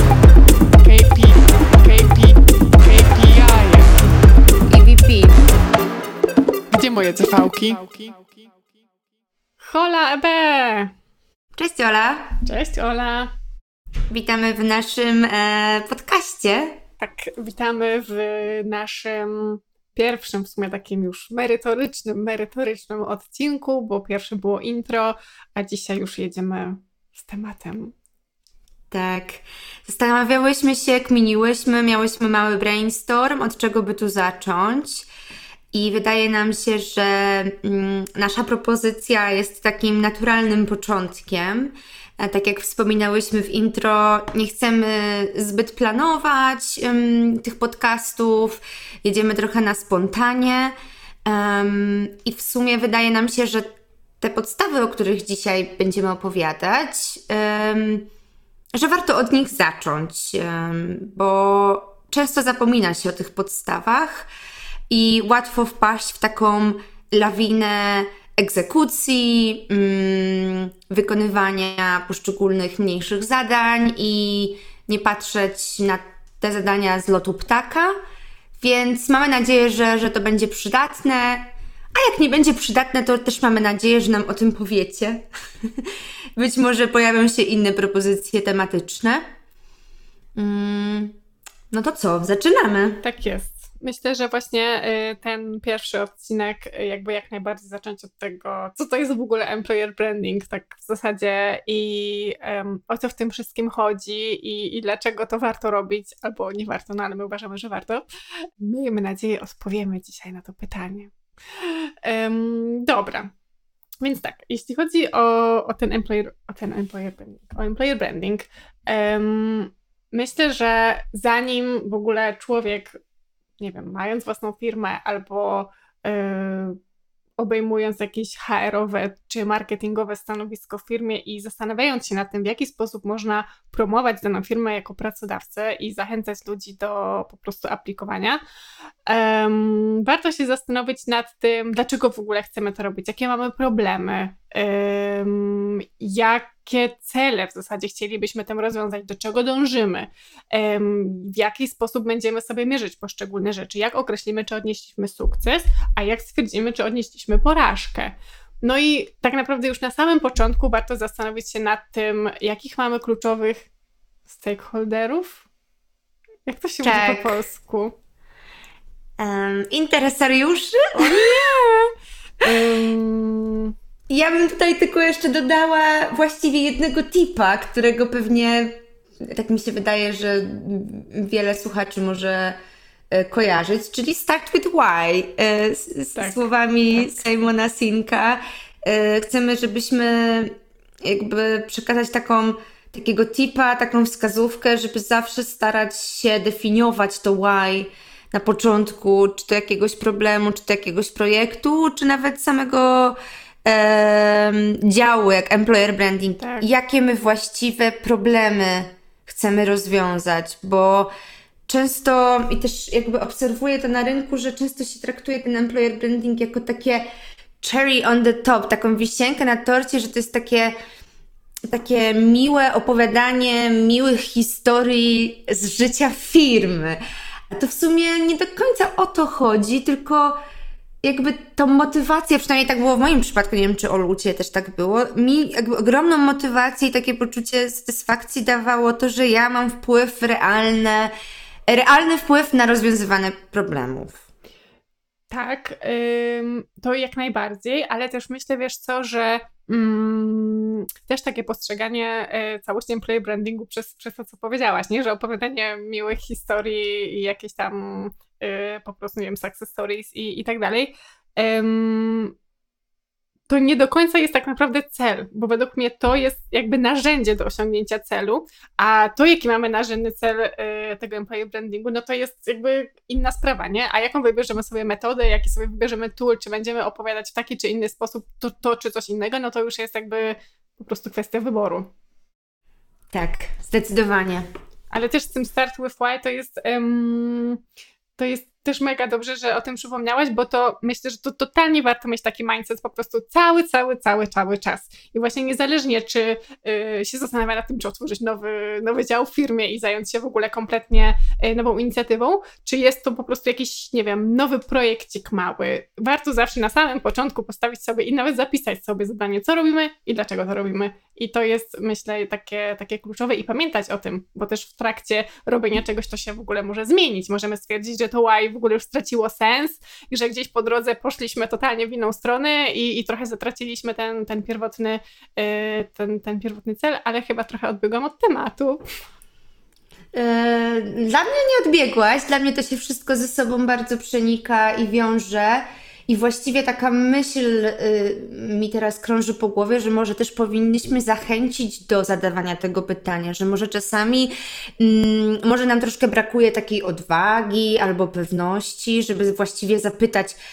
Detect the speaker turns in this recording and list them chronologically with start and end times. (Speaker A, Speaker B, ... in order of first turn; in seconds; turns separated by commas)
Speaker A: 0.8-4.0, Speaker B: 4.7-5.4, Speaker A: 6.7-8.3, Speaker A: 9.6-10.9, Speaker B: 11.6-12.4, Speaker A: 12.4-13.3, Speaker B: 14.1-16.8, Speaker A: 17.0-27.9, Speaker B: 28.9-35.1, Speaker B: 35.7-50.7, Speaker B: 51.2-58.1, Speaker B: 58.7-64.3, Speaker B: 64.9-77.9, Speaker B: 78.6-89.2, Speaker B: 90.4-91.2, Speaker B: 91.7-93.0, Speaker A: 93.0-108.1, Speaker A: 108.6-113.3, Speaker A: 114.0-123.0, Speaker A: 123.6-126.8, Speaker A: 127.4-138.4, Speaker A: 139.1-163.7, Speaker A: 164.3-165.5, Speaker A: 166.5-167.9, Speaker B: 166.8-167.3, Speaker B: 169.2-171.4, Speaker A: 170.9-173.7, Speaker B: 174.1-182.6, Speaker B: 183.1-211.1, Speaker A: 186.2-187.3, Speaker A: 206.4-206.7, Speaker B: 211.7-217.1, Speaker B: 217.6-220.7, Speaker B: 221.7-227.0, Speaker B: 227.5-230.4, Speaker B: 231.0-241.1, Speaker B: 241.7-244.2, Speaker A: 245.3-262.4, Speaker A: 263.5-281.9, Speaker B: 283.1-284.5, Speaker A: 284.9-287.6, Speaker A: 288.2-328.8, Speaker B: 330.1-350.4